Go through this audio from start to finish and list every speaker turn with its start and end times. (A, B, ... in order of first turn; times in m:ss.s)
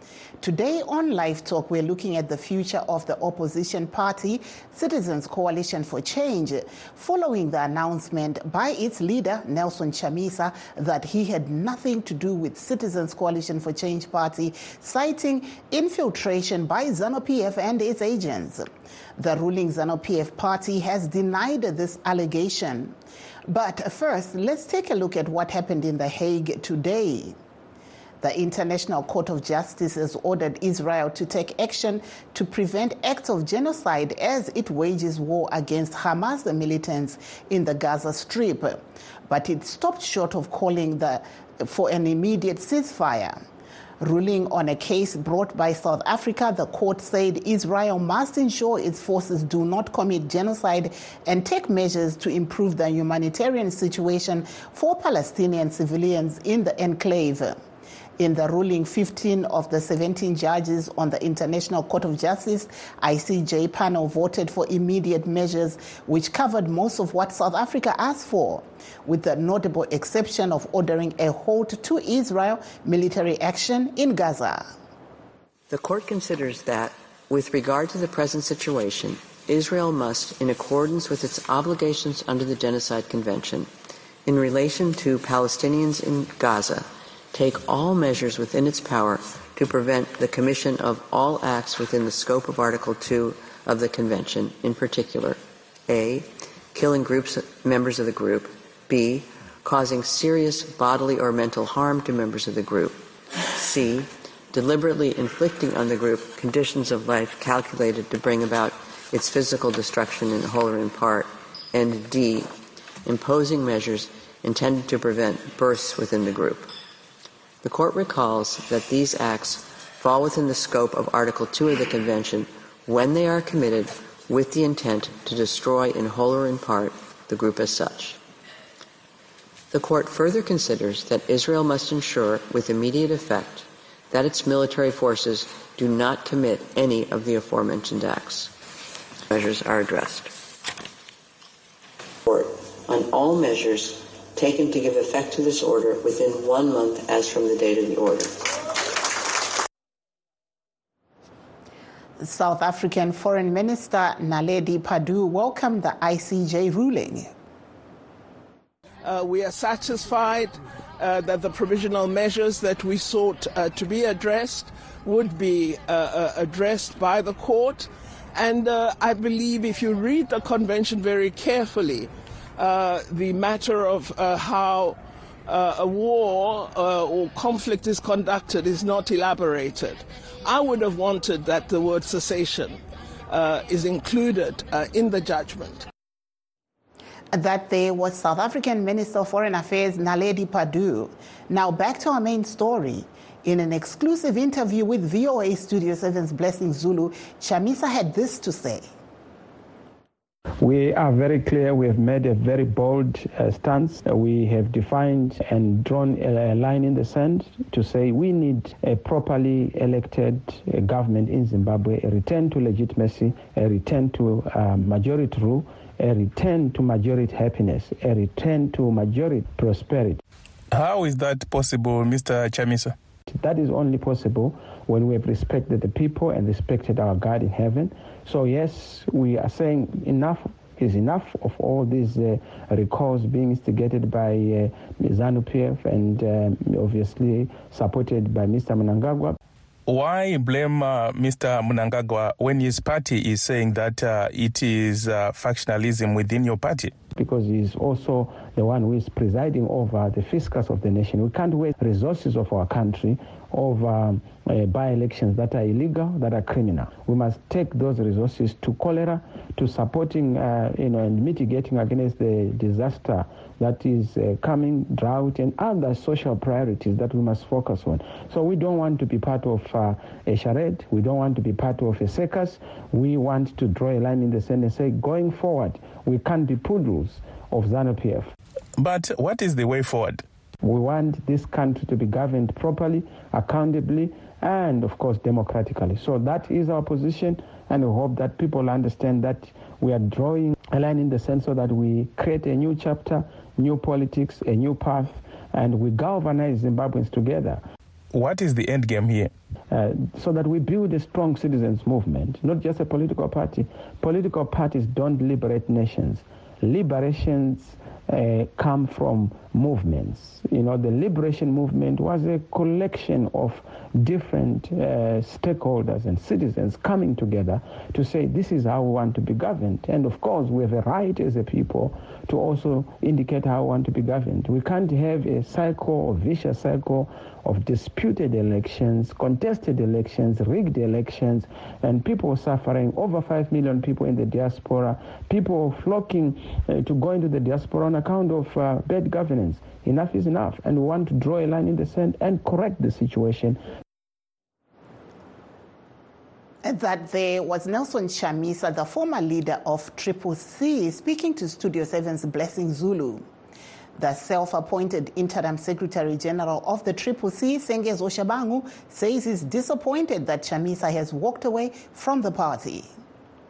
0:00.4-0:22.9 A
0:23.5-0:27.3 A
0:28.2-0:43.4 A
0:44.0-0:57.6 A
0:58.2-1:14.7 A
1:15.7-1:23.7 B
1:24.2-1:52.5 B
1:53.0-1:56.7 B
1:57.6-2:08.2 B
2:09.7-2:18.5 B
2:19.3-2:20.4 B
2:22.2-2:28.5 B
2:32.2-2:37.3 A
2:39.0-3:05.9 C
3:07.3-3:18.8 A
3:20.6-3:40.2 D
3:40.7-3:42.9 E
3:43.3-3:59.4 D
3:59.9-4:06.9 E
4:07.2-4:38.3 D
4:38.8-4:40.2 E
4:40.6-4:57.6 D
4:58.1-4:59.3 E
4:59.7-5:43.6 D
5:46.6-5:53.2 A
5:54.0-6:02.9 A